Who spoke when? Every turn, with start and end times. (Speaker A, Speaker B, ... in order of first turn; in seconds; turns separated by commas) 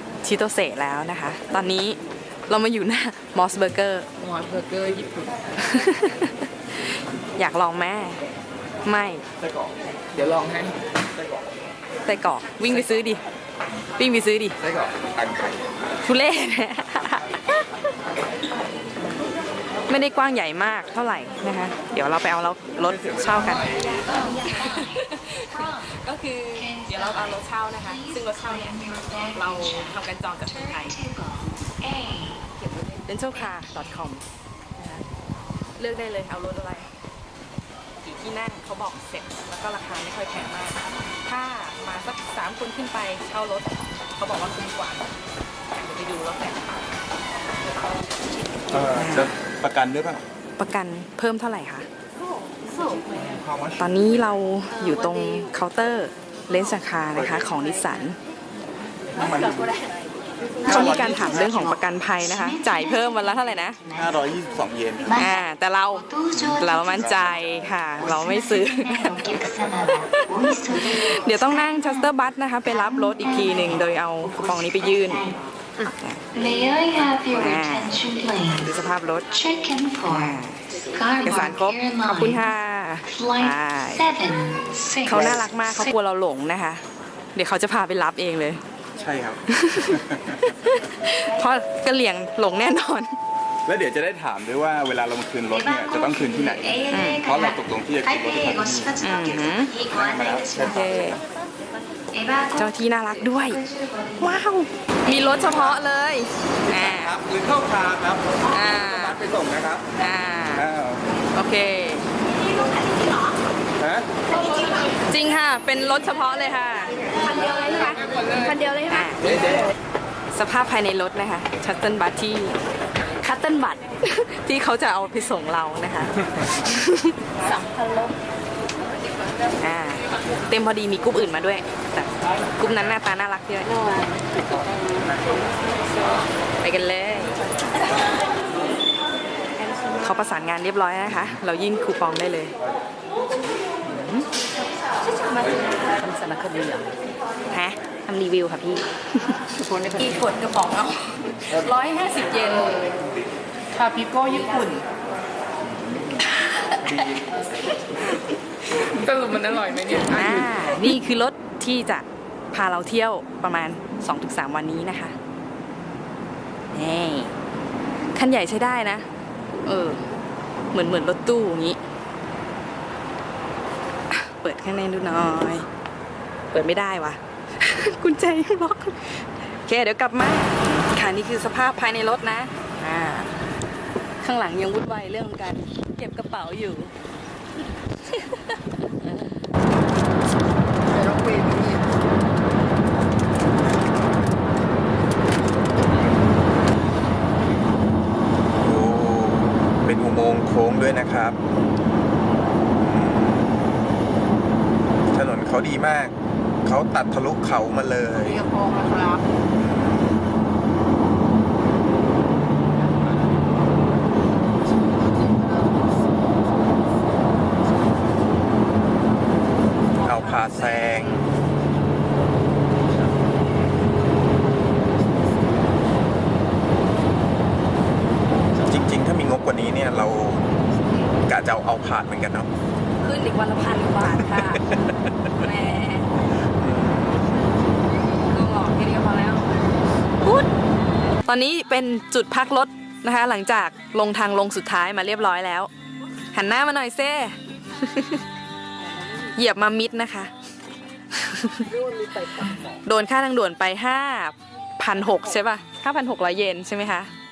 Speaker A: 0.2-4.1, Speaker B: 4.2-5.4, Speaker A: 5.6-6.5, Speaker A: 7.4-8.2, Speaker A: 8.8-9.2, Speaker B: 10.1-10.8, Speaker A: 12.1-13.2, Speaker A: 14.0-14.6, Speaker C: 14.6-15.6, Speaker A: 16.0-17.7, Speaker A: 19.9-31.0, Speaker D: 23.7-25.9, Speaker D: 26.6-32.5, Speaker A: 32.6-34.2, Speaker A: 34.8-35.0, Speaker A: 35.8-36.9, Speaker A: 38.0-45.1, Speaker A: 45.7-46.9, Speaker C: 48.7-50.2, Speaker A: 48.9-49.4, Speaker A: 50.6-51.9, Speaker C: 53.3-53.8, Speaker A: 53.8-58.2, Speaker C: 57.2-57.5, Speaker C: 59.1-59.7, Speaker C: 60.6-61.7, Speaker A: 60.7-63.8, Speaker D: 60.7-64.2, Speaker C: 64.0-65.1, Speaker D: 65.0-67.2, Speaker A: 65.2-69.2, Speaker C: 66.3-67.5, Speaker D: 68.0-72.1, Speaker A: 69.9-75.2, Speaker D: 72.7-75.4, Speaker A: 75.8-76.2, Speaker D: 76.3-78.7, Speaker A: 77.3-78.0, Speaker A: 78.6-79.3, Speaker D: 79.3-82.4, Speaker A: 80.1-80.7, Speaker A: 81.2-84.1, Speaker D: 83.1-85.9, Speaker A: 85.0-86.8, Speaker C: 85.1-85.4, Speaker A: 87.3-88.6, Speaker C: 89.0-90.5, Speaker A: 89.5-93.2, Speaker C: 93.7-99.3, Speaker D: 95.5-100.9, Speaker A: 96.9-97.3, Speaker A: 99.0-99.7, Speaker C: 99.9-100.9, Speaker A: 100.6-101.2, Speaker D: 102.1-104.3, Speaker A: 102.6-103.6, Speaker A: 104.2-107.2, Speaker C: 106.7-109.8, Speaker A: 108.5-109.2, Speaker A: 110.0-110.7, Speaker C: 110.5-111.0, Speaker A: 111.3-112.1, Speaker C: 113.8-114.1, Speaker A: 115.1-119.4, Speaker A: 120.3-122.6, Speaker A: 123.2-128.1, Speaker A: 129.6-134.1, Speaker B: 133.9-135.1, Speaker A: 136.6-137.5, Speaker A: 139.6-142.5, Speaker A: 143.8-144.3, Speaker B: 145.9-146.9, Speaker A: 147.5-152.9, Speaker B: 149.6-150.0, Speaker B: 153.7-154.8, Speaker A: 156.2-157.1, Speaker A: 157.9-165.2, Speaker B: 158.9-160.3, Speaker A: 166.7-167.3, Speaker A: 168.1-169.1, Speaker A: 169.7-170.0, Speaker A: 170.7-171.8, Speaker A: 174.1-175.7, Speaker A: 176.5-183.3, Speaker A: 184.2-186.9, Speaker A: 188.1-189.3, Speaker B: 190.9-191.8, Speaker C: 198.6-201.4, Speaker C: 202.8-203.7, Speaker C: 205.1-208.4, Speaker B: 208.2-209.2, Speaker C: 209.5-210.1, Speaker C: 220.0-221.3, Speaker B: 220.1-220.8, Speaker C: 228.6-230.5, Speaker C: 231.2-232.5, Speaker A: 233.0-234.8, Speaker A: 235.4-236.1, Speaker C: 236.6-237.2, Speaker A: 238.3-239.5, Speaker A: 240.2-240.5, Speaker A: 241.2-245.7, Speaker A: 246.3-248.2, Speaker A: 249.1-250.3, Speaker A: 251.1-251.7, Speaker B: 251.7-252.7, Speaker A: 252.5-257.1